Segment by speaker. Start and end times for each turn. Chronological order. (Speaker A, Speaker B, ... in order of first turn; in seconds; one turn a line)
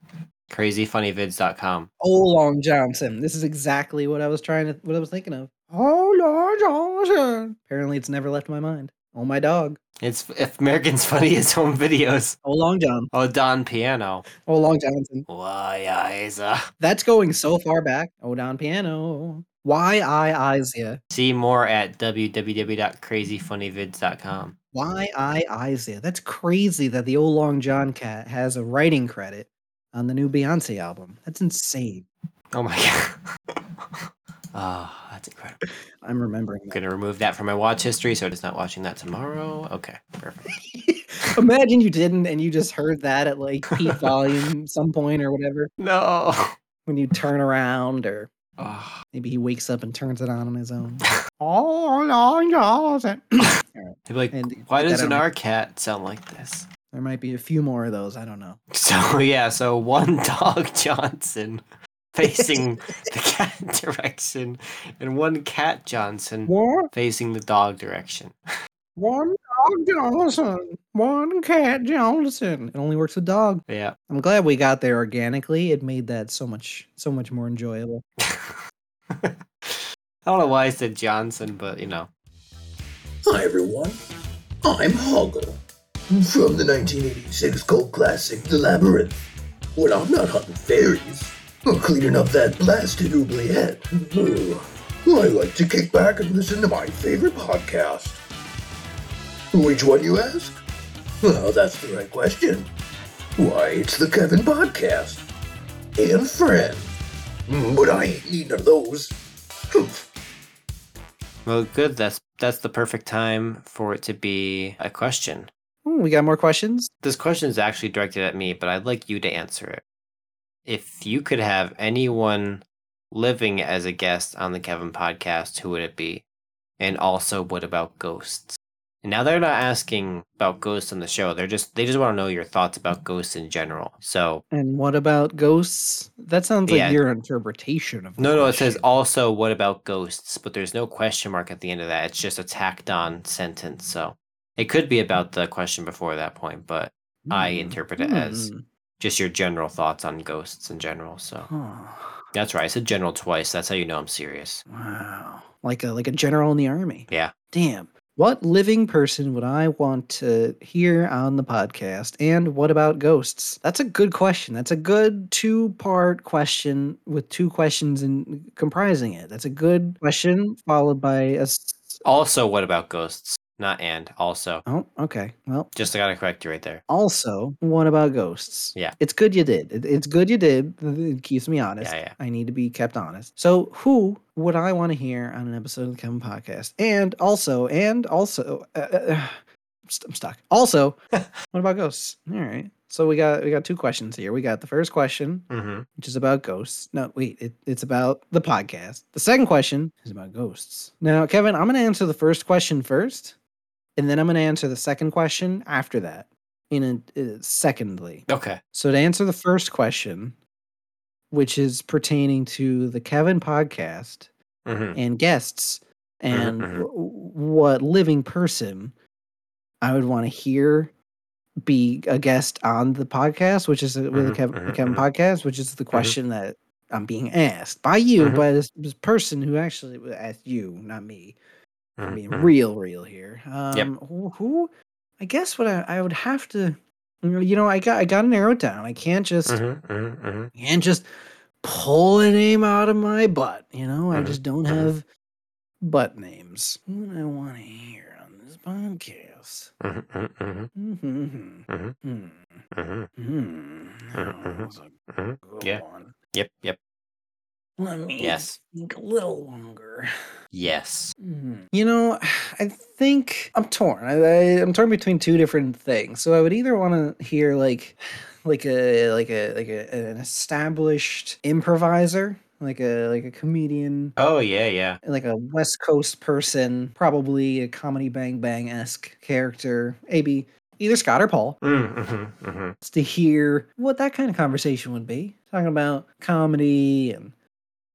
Speaker A: 0.5-1.9
Speaker B: 2.0-9.8
Speaker A: 10.0-12.4
Speaker B: 12.4-13.1
Speaker A: 13.1-14.2
Speaker B: 14.4-15.2
Speaker A: 15.3-16.6
Speaker B: 16.8-21.0
Speaker A: 21.1-24.6
Speaker B: 24.7-32.1
Speaker A: 32.5-33.1
Speaker A: 33.9-35.6
Speaker B: 36.0-36.8
Speaker A: 36.7-40.5
Speaker B: 40.9-45.7
Speaker A: 45.8-46.5
Speaker B: 46.9-48.3
Speaker A: 48.6-49.0
Speaker B: 49.1-55.2
Speaker A: 54.1-56.7
Speaker B: 56.9-58.6
Speaker A: 58.7-61.6
Speaker A: 62.1-68.3
Speaker B: 62.3-62.6
Speaker B: 66.5-66.9
Speaker B: 69.0-78.0
Speaker A: 73.7-74.0
Speaker A: 78.2-78.6
Speaker A: 79.1-82.1
Speaker C: 83.2-84.0
Speaker C: 84.6-89.2
Speaker C: 89.8-98.2
Speaker C: 99.5-100.6
Speaker C: 101.2-102.7
Speaker C: 103.4-105.2
Speaker C: 106.0-106.9
Speaker C: 107.5-109.2
Speaker C: 109.7-110.0
Speaker A: 111.4-115.5
Speaker B: 115.8-116.9
Speaker A: 117.0-119.8
Speaker A: 120.6-126.2
Speaker A: 126.8-134.4
Speaker B: 134.5-138.8
Speaker A: 136.7-137.0
Speaker A: 138.2-151.5
Speaker B: 147.2-148.6
Speaker B: 151.5-152.2
Speaker A: 152.3-154.6
Speaker B: 154.7-172.0
Speaker A: 172.0-174.6
Speaker B: 174.7-175.8
Speaker A: 175.7-176.8
Speaker B: 176.9-191.0
Speaker A: 181.8-182.2
Speaker B: 191.5-203.3
Speaker A: 195.5-195.9
Speaker B: 203.9-210.3
Speaker A: 208.3-208.6
Speaker B: 211.3-214.3
Speaker A: 214.7-215.0
Speaker B: 214.9-218.9
Speaker A: 216.3-216.9
Speaker B: 219.8-220.9
Speaker B: 221.6-231.4
Speaker A: 224.1-225.0
Speaker A: 228.2-228.4
Speaker A: 232.0-232.5
Speaker B: 232.1-239.6
Speaker A: 239.4-240.5
Speaker B: 240.5-241.1
Speaker B: 241.6-245.1
Speaker A: 244.1-244.9
Speaker B: 245.8-249.7
Speaker A: 249.8-250.7
Speaker B: 250.7-252.6
Speaker A: 251.7-251.9
Speaker A: 252.7-253.1
Speaker B: 253.2-254.9
Speaker A: 254.1-256.8
Speaker B: 255.4-256.1
Speaker B: 257.8-260.1
Speaker A: 258.2-258.6
Speaker A: 260.5-261.1
Speaker B: 261.2-274.1
Speaker A: 274.1-275.0
Speaker B: 275.0-281.6
Speaker A: 281.6-282.7
Speaker B: 282.8-287.3